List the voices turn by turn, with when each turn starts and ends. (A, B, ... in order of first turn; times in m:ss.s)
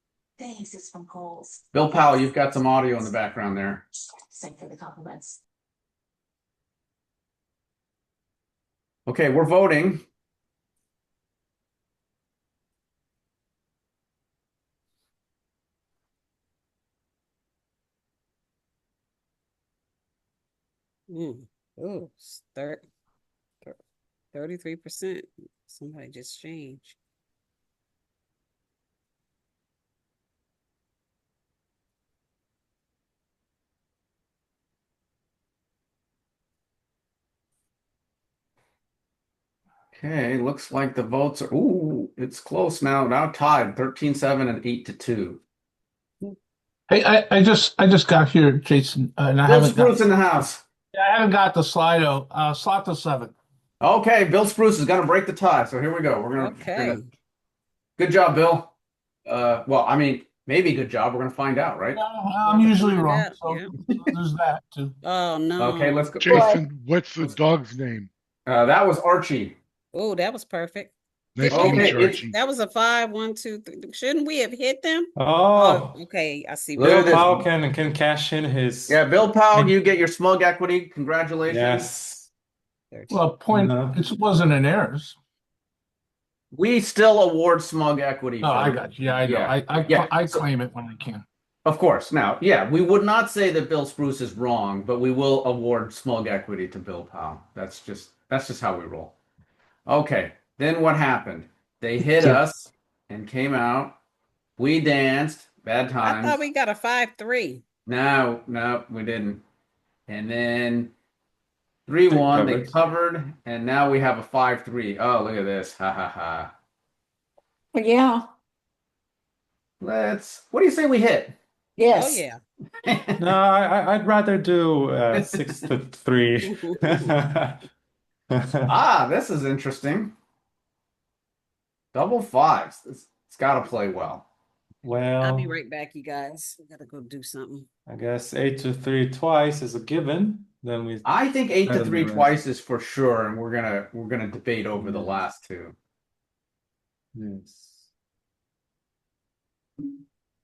0:00.4-0:01.6 A
0:01.7-0:03.8 B
0:04.3-0:05.4 A
0:09.0-0:10.0 B
0:21.1-0:22.8 C
0:24.3-0:27.0 C
0:39.9-0:45.4 B
0:46.9-0:50.0 D
0:49.4-0:50.6 B
0:50.9-0:53.3 D
0:53.8-0:57.0 B
0:56.4-0:57.1 C
0:58.0-0:58.7 B
0:59.3-1:02.0 B
1:01.9-1:04.9 D
1:02.5-1:03.7 C
1:05.0-1:06.4 C
1:05.6-1:06.5 B
1:06.2-1:08.1 E
1:06.3-1:06.6 A
1:08.4-1:09.6 B
1:09.9-1:17.2 C
1:11.4-1:12.4 E
1:11.5-1:12.2 B
1:15.2-1:16.0 F
1:16.8-1:17.5 B
1:16.8-1:19.7 F
1:18.9-1:21.9 B
1:21.5-1:22.3 F
1:22.9-1:23.2 C
1:23.1-1:25.2 D
1:23.5-1:24.0 F
1:26.5-1:30.4 B
1:28.4-1:31.2 D
1:31.6-1:39.1 B
1:39.9-1:44.0 B
1:44.6-1:46.4 B
1:46.0-1:47.6 C
1:47.8-1:49.4 B
1:50.1-1:50.9 B
1:51.9-1:56.5 B
1:52.1-1:52.7 F
1:57.7-1:58.2 A
1:59.8-2:01.4 B
2:01.8-2:02.2 A
2:01.9-2:02.4 C
2:02.8-2:03.2 B
2:03.2-2:07.6 F
2:05.1-2:05.6 B
2:06.4-2:07.1 C
2:08.3-2:08.8 F
2:08.7-2:10.1 B
2:11.9-2:14.2 B
2:14.8-2:15.6 F
2:15.2-2:17.7 C
2:17.9-2:21.1 F
2:21.0-2:25.8 B
2:21.6-2:22.4 F
2:24.8-2:25.2 F
2:27.1-2:27.9 F